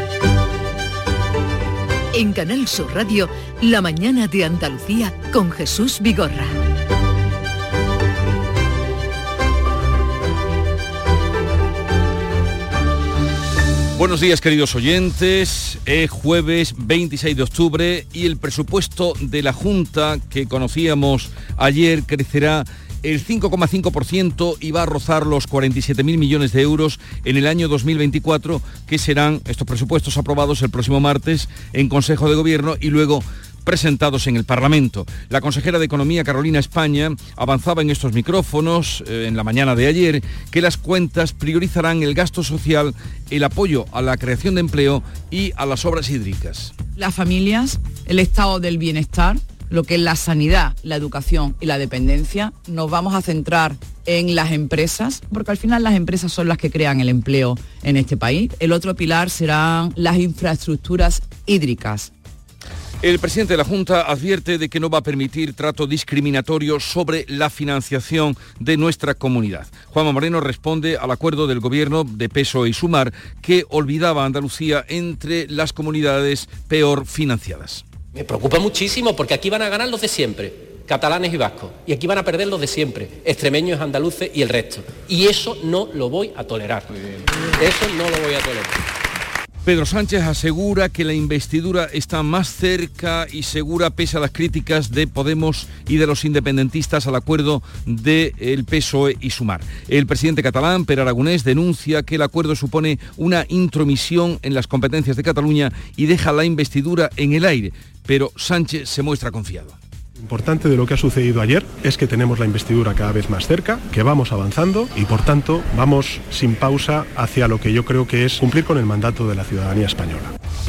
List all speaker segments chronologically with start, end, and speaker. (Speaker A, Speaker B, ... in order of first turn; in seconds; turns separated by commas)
Speaker A: 2.1-6.5, Speaker B: 13.9-46.7, Speaker C: 47.0-62.1, Speaker B: 63.0-77.8, Speaker D: 78.1-86.9, Speaker D: 87.5-88.8, Speaker B: 89.6-109.8, Speaker E: 110.2-120.3